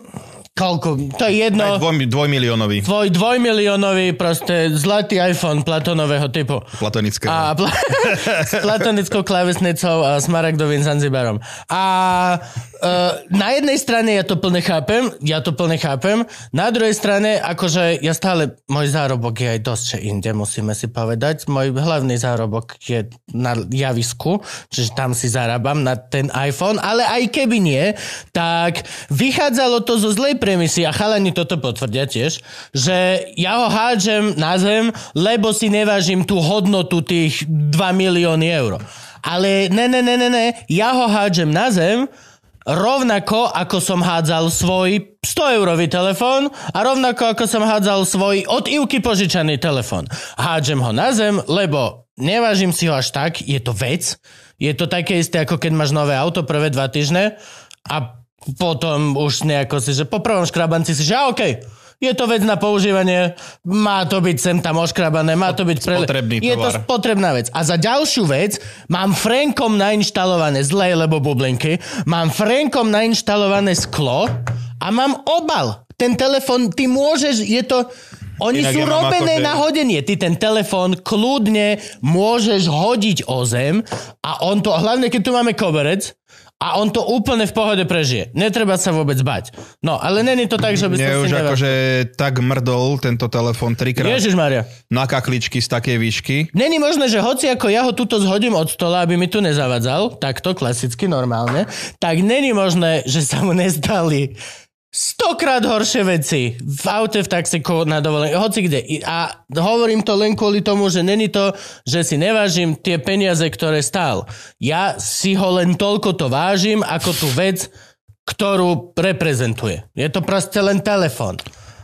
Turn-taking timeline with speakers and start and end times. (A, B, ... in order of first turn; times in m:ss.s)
0:00.6-0:01.9 A
0:01.6-0:02.9 B
0:02.8-0:42.1 A
0:06.8-0:07.5 B
0:08.1-0:08.6 B
0:42.6-1:31.8 A
1:05.5-1:06.8 B
1:18.5-1:19.6 B
1:30.8-1:34.2 B
1:34.0-1:34.7 A
1:34.9-1:36.5 B
1:36.5-1:44.4 A
1:44.9-1:57.7 A
1:58.2-2:01.4 A